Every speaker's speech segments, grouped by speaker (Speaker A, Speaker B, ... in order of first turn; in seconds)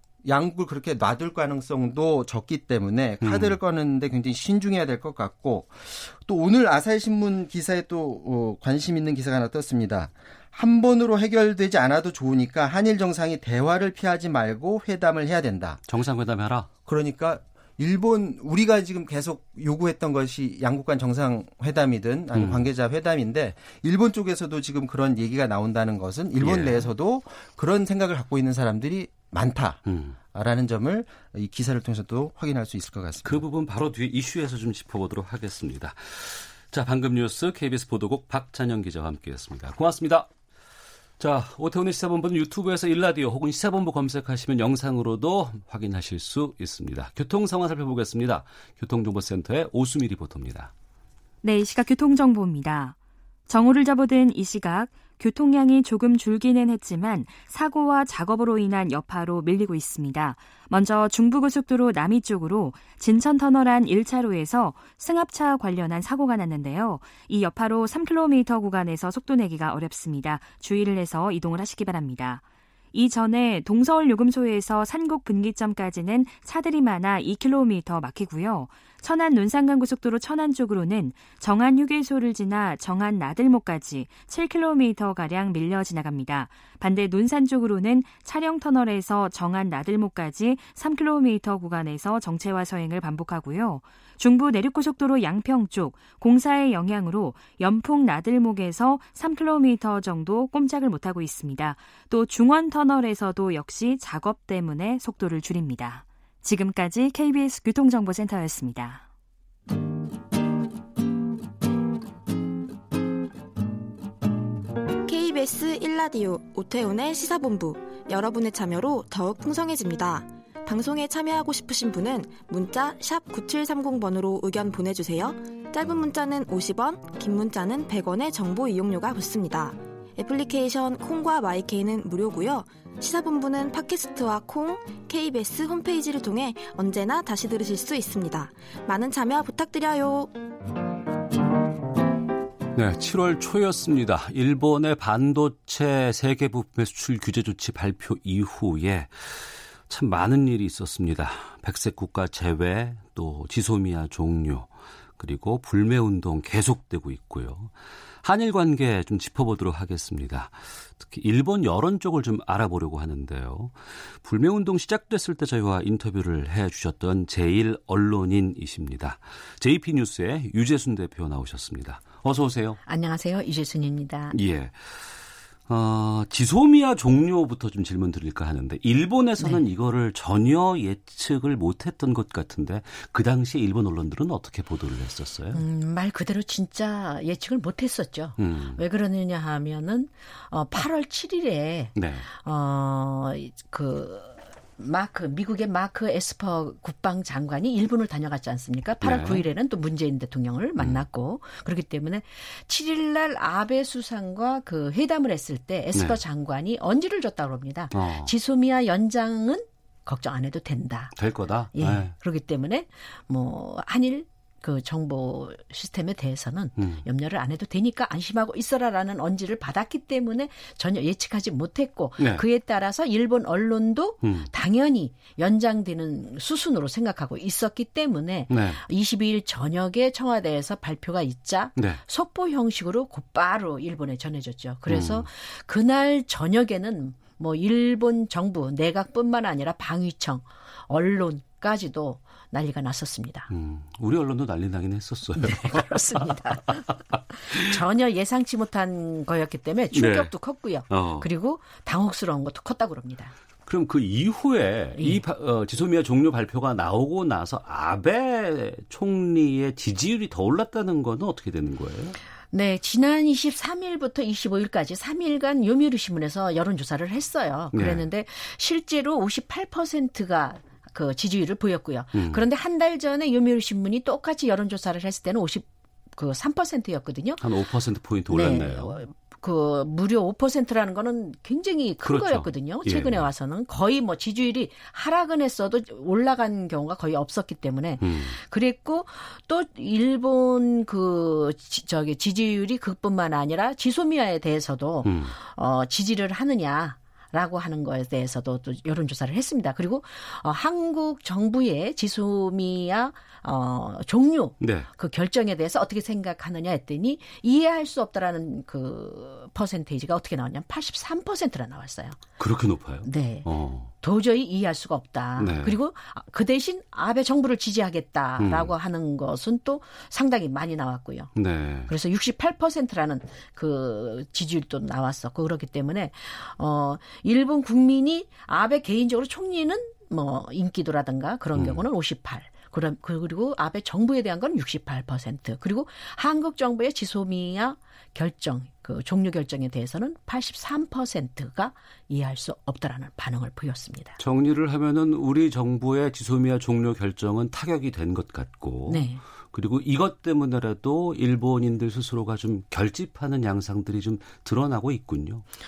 Speaker A: 0.2-15.8, 16.9-29.8, 30.3-33.4
Speaker B: 3.2-3.6, 15.9-16.7, 22.3-22.7, 26.4-26.9, 29.9-30.2, 33.2-40.3, 41.2-50.7, 142.8-157.7, 158.2-172.8, 174.3-175.2, 175.7-185.6, 188.4-188.8, 192.0-192.2, 199.0-199.5, 200.8-201.0, 205.9-206.2, 207.9-208.3, 211.2-212.1, 216.8-217.0, 224.2-224.5, 228.5-228.8, 234.9-235.3, 243.5-246.8, 249.9-250.3, 250.9-251.3, 253.7-262.1, 267.7-268.1, 272.1-272.4, 277.4-279.0, 282.0-283.3, 288.0-288.4, 295.1-295.4, 304.6-304.9, 312.4-313.9, 315.4-315.8, 318.4-318.7, 321.4-321.9, 331.6-331.8, 344.2-355.4
Speaker C: 51.4-53.0, 53.5-109.1
Speaker D: 115.1-140.3
Speaker E: 172.8-174.4, 185.5-211.1, 211.8-243.5, 245.4-246.9, 247.5-253.3, 255.0-255.2, 262.5-277.4, 278.3-312.2, 313.0-313.5, 314.0-321.3, 321.9-344.2, 348.9-349.2